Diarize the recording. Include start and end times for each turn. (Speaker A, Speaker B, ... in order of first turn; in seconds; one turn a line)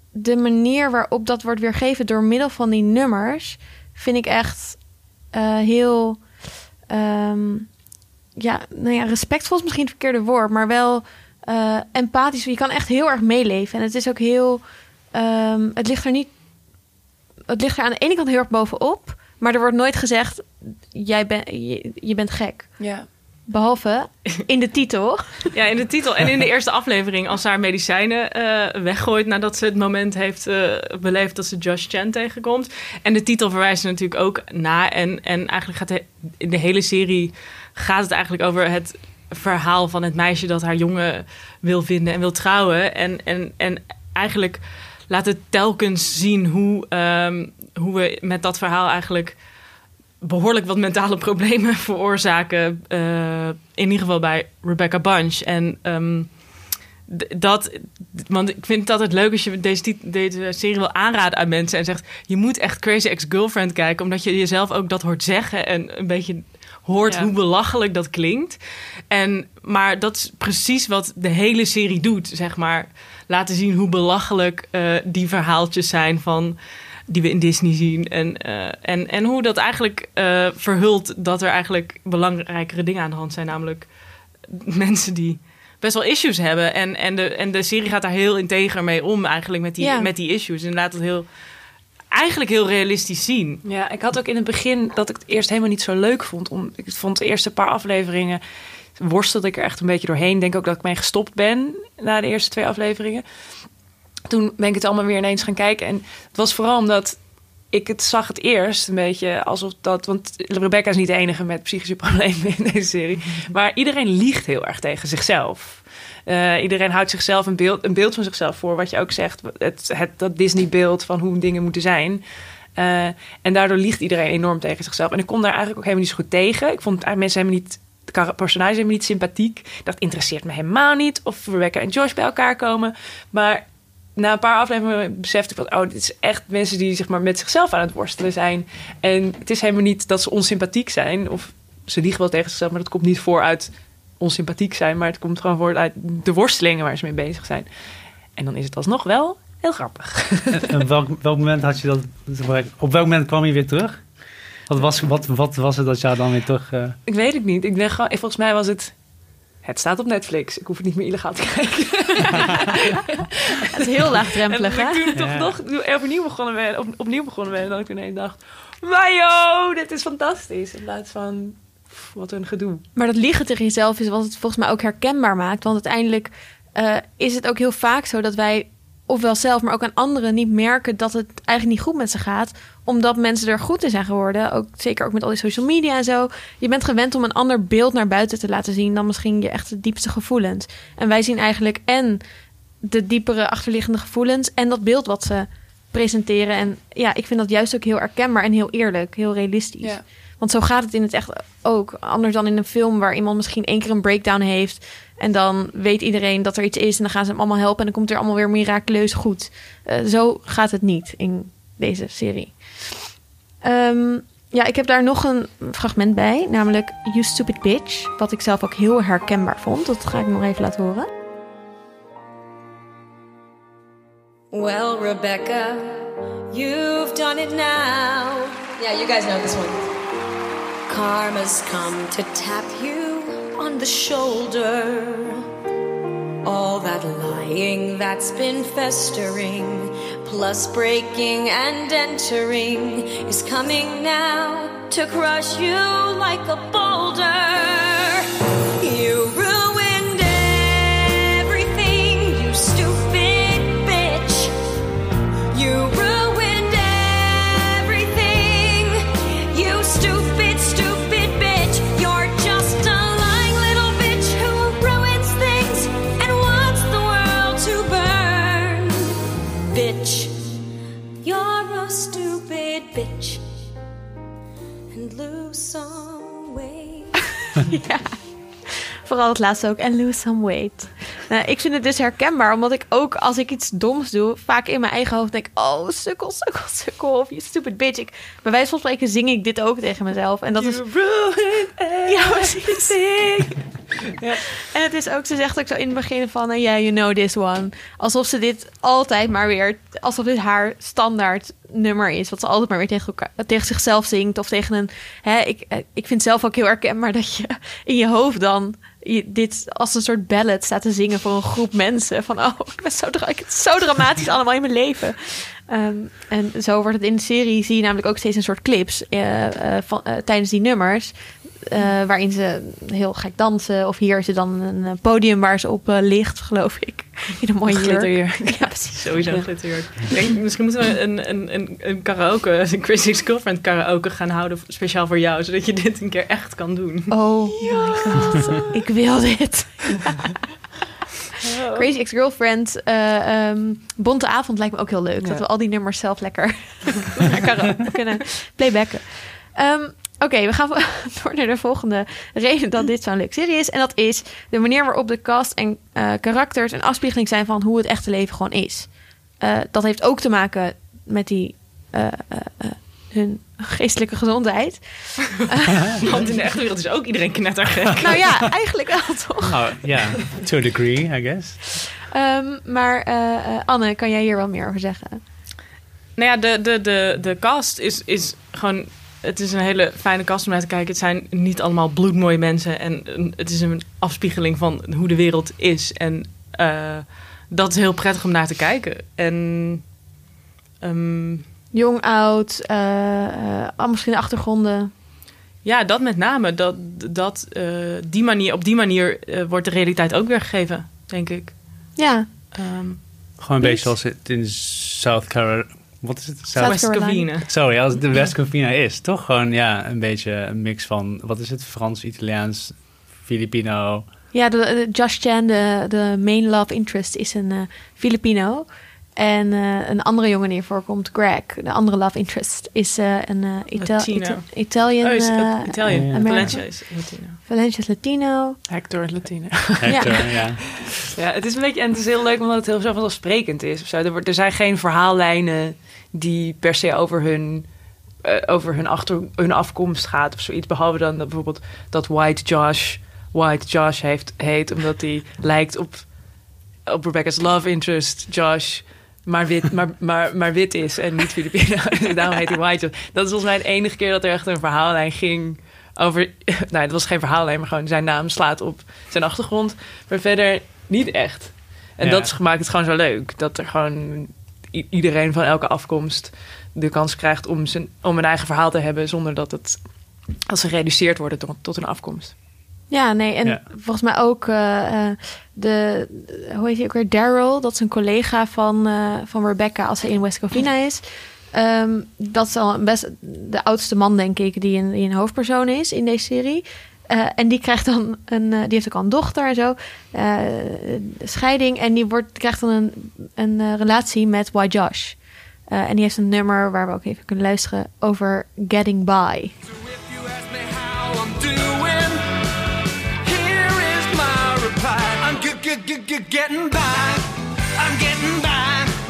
Speaker A: 0.1-6.3
Speaker A: 6.9-7.7
Speaker A: 8.4-16.3
Speaker A: 17.5-22.8
Speaker B: 22.8-23.1
Speaker A: 23.5-25.5
Speaker C: 25.5-49.4
Speaker C: 50.2-68.6
Speaker B: 67.1-67.3
Speaker C: 69.1-83.9
Speaker C: 84.5-91.3
Speaker A: 89.8-90.1
Speaker C: 92.1-93.6
Speaker B: 93.7-98.4
Speaker B: 99.0-103.2
Speaker B: 104.3-122.2
Speaker B: 122.8-147.7
Speaker B: 148.4-150.6
Speaker D: 150.5-154.0
Speaker D: 154.7-157.0
Speaker B: 157.1-158.9
Speaker B: 159.6-172.8
Speaker A: 163.7-165.1
Speaker D: 165.2-165.6
Speaker A: 172.9-192.2
Speaker A: 192.8-213.0
Speaker A: 213.6-221.1
Speaker E: 224.5-229.9
Speaker E: 230.9-235.5
Speaker E: 236.4-254.5
Speaker E: 255.5-269.2
Speaker E: 269.7-270.4
Speaker E: 271.2-273.4
Speaker E: 274.9-277.2
Speaker A: 277.7-278.2
Speaker A: 278.7-290.8
Speaker B: 290.6-294.6
Speaker A: 292.1-293.0
Speaker A: 294.6-329.2
Speaker B: 327.7-329.5
Speaker C: 329.0-337.8
Speaker A: 337.1-340.3
Speaker B: 337.7-338.4
Speaker B: 341.4-341.9
Speaker A: 341.7-366.0
Speaker B: 345.2-345.4
Speaker C: 366.0-368.4
Speaker A: 368.0-369.6
Speaker D: 369.5-371.8
Speaker A: 372.1-375.2
Speaker C: 376.2-390.0
Speaker C: 390.8-391.5
Speaker A: 391.7-394.9
Speaker C: 395.6-402.0
Speaker A: 402.0-402.3
Speaker C: 402.5-403.0
Speaker D: 403.4-414.1
Speaker A: 403.6-403.9
Speaker C: 406.6-407.8
Speaker A: 406.6-407.3
Speaker A: 414.3-428.6
Speaker C: 423.8-427.4
Speaker D: 425.9-426.6
Speaker B: 428.7-446.1
Speaker D: 429.8-431.0
Speaker A: 429.9-430.2
Speaker B: 446.9-469.9
Speaker D: 462.0-462.3
Speaker B: 470.5-472.4
Speaker A: 472.9-499.5
Speaker F: 499.7-502.4
Speaker F: 503.2-508.9